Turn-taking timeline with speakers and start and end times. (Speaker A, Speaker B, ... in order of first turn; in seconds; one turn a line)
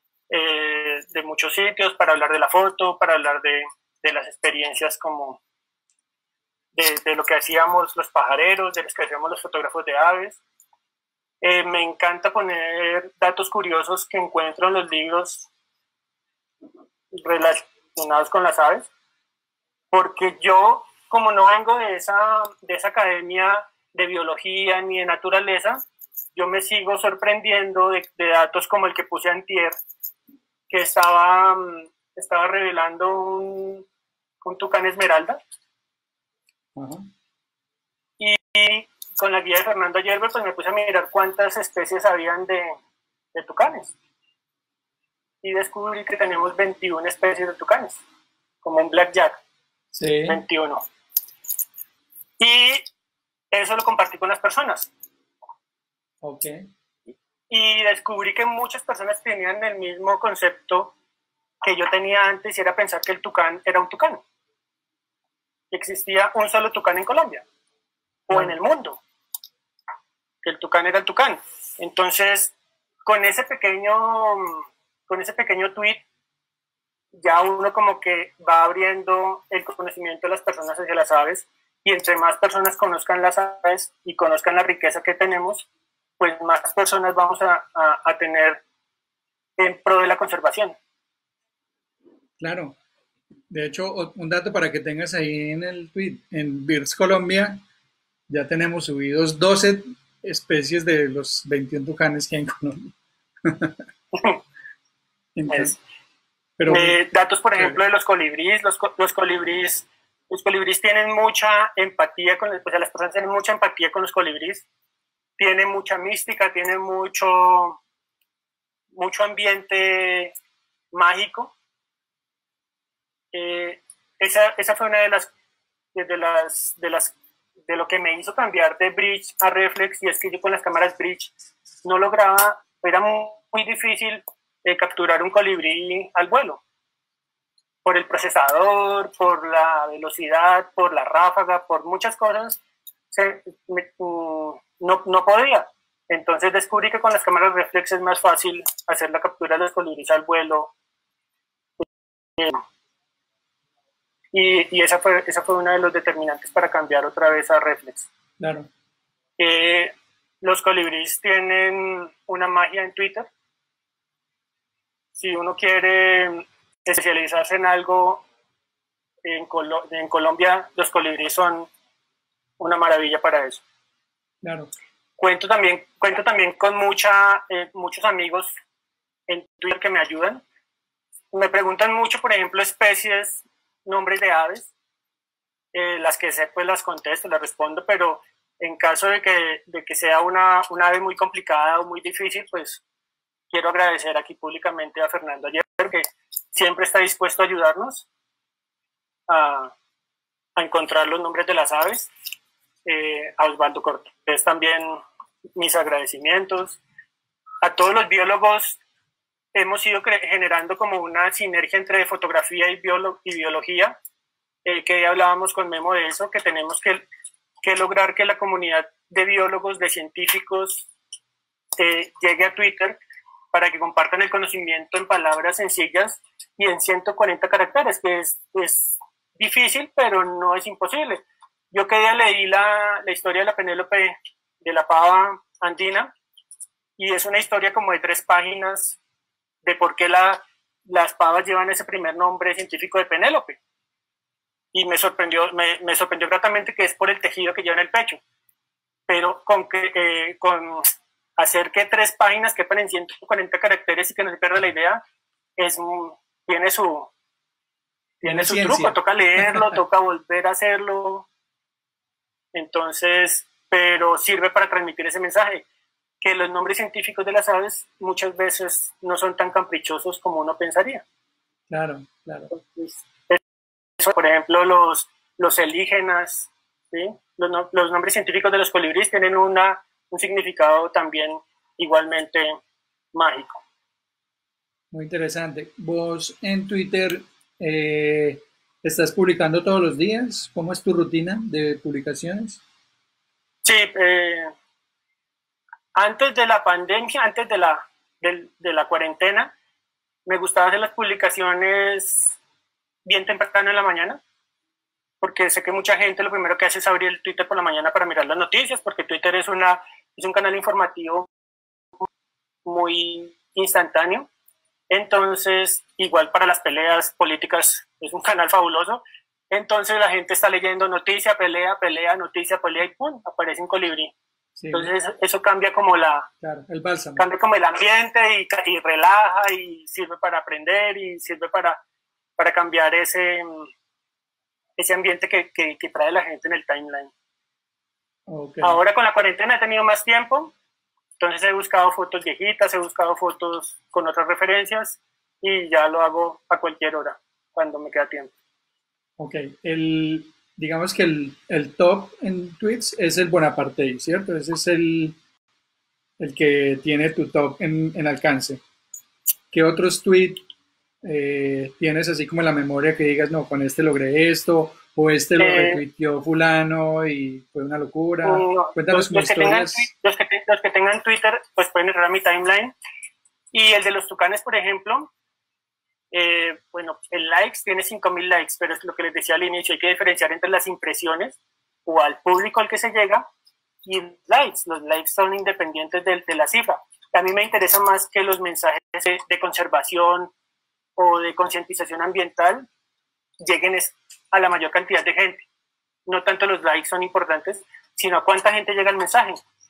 Speaker A: 0.3-5.4
Speaker A: 6.7-10.4
Speaker A: 11.4-15.5
Speaker A: 17.1-18.9
Speaker A: 19.9-25.8
Speaker A: 26.3-29.7
Speaker A: 30.7-33.8
Speaker A: 34.4-35.4
Speaker B: 36.8-37.1
Speaker A: 38.2-42.8
Speaker A: 43.3-43.9
Speaker A: 45.4-48.0
Speaker A: 48.6-49.4
Speaker B: 49.9-50.4
Speaker A: 50.3-50.8
Speaker A: 52.4-52.9
Speaker A: 53.5-54.9
Speaker B: 56.2-56.6
Speaker A: 57.5-60.9
Speaker A: 61.6-64.2
Speaker A: 65.7-67.4
Speaker A: 68.3-69.0
Speaker A: 70.4-72.5
Speaker A: 73.0-76.0
Speaker A: 77.2-85.7
Speaker A: 86.2-88.6
Speaker A: 89.6-90.8
Speaker B: 92.4-92.8
Speaker B: 93.5-97.6
Speaker B: 98.3-102.9
Speaker B: 103.4-103.8
Speaker A: 104.1-104.4
Speaker B: 105.3-105.8
Speaker A: 105.5-105.7
Speaker B: 106.6-107.0
Speaker A: 106.7-114.7
Speaker A: 115.4-117.8
Speaker A: 118.9-120.3
Speaker A: 120.9-121.5
Speaker A: 123.3-125.3
Speaker A: 125.9-127.1
Speaker A: 127.7-131.3
Speaker A: 131.8-136.6
Speaker A: 137.8-142.6
Speaker A: 143.1-150.7
Speaker A: 154.3-158.1
Speaker B: 158.4-158.7
Speaker A: 159.4-163.3
Speaker A: 165.2-168.2
Speaker A: 169.2-171.7
Speaker A: 172.6-173.6
Speaker B: 174.4-174.7
Speaker A: 175.2-178.6
Speaker A: 179.3-180.4
Speaker A: 181.3-184.7
Speaker A: 185.7-192.8
Speaker A: 193.5-198.1
Speaker A: 199.3-199.7
Speaker A: 200.6-202.1
Speaker A: 202.8-205.0
Speaker A: 205.6-206.8
Speaker A: 207.6-208.8
Speaker A: 209.5-213.9
Speaker A: 214.6-217.0
Speaker A: 217.6-220.9
Speaker A: 221.8-223.0
Speaker A: 223.5-236.1
Speaker A: 237.0-239.0
Speaker A: 239.6-243.6
Speaker A: 244.7-248.2
Speaker A: 249.1-255.0
Speaker A: 255.6-257.1
Speaker A: 258.2-261.2
Speaker B: 258.2-259.8
Speaker A: 262.5-265.6
Speaker A: 266.2-271.0
Speaker B: 271.7-272.5
Speaker A: 272.5-273.4
Speaker A: 274.0-282.6
Speaker A: 283.1-283.6
Speaker B: 284.9-292.6
Speaker A: 293.6-294.5
Speaker A: 295.9-299.5
Speaker A: 300.2-302.4
Speaker A: 303.1-304.2
Speaker A: 305.2-311.3
Speaker A: 312.6-314.3
Speaker A: 314.9-324.1
Speaker B: 324.6-324.9
Speaker A: 324.7-326.3
Speaker B: 326.4-327.2
Speaker A: 327.2-331.8
Speaker A: 332.4-333.7
Speaker A: 334.8-337.1
Speaker B: 338.3-338.8
Speaker A: 338.6-340.5
Speaker A: 341.2-348.3
Speaker B: 349.2-355.2
Speaker B: 356.2-358.6
Speaker B: 359.5-360.4
Speaker B: 361.0-369.9
Speaker A: 365.4-365.8
Speaker A: 368.2-372.7
Speaker A: 373.5-375.1
Speaker A: 376.1-383.2
Speaker A: 383.8-390.3
Speaker A: 391.0-392.6
Speaker A: 393.4-395.4
Speaker A: 396.1-399.4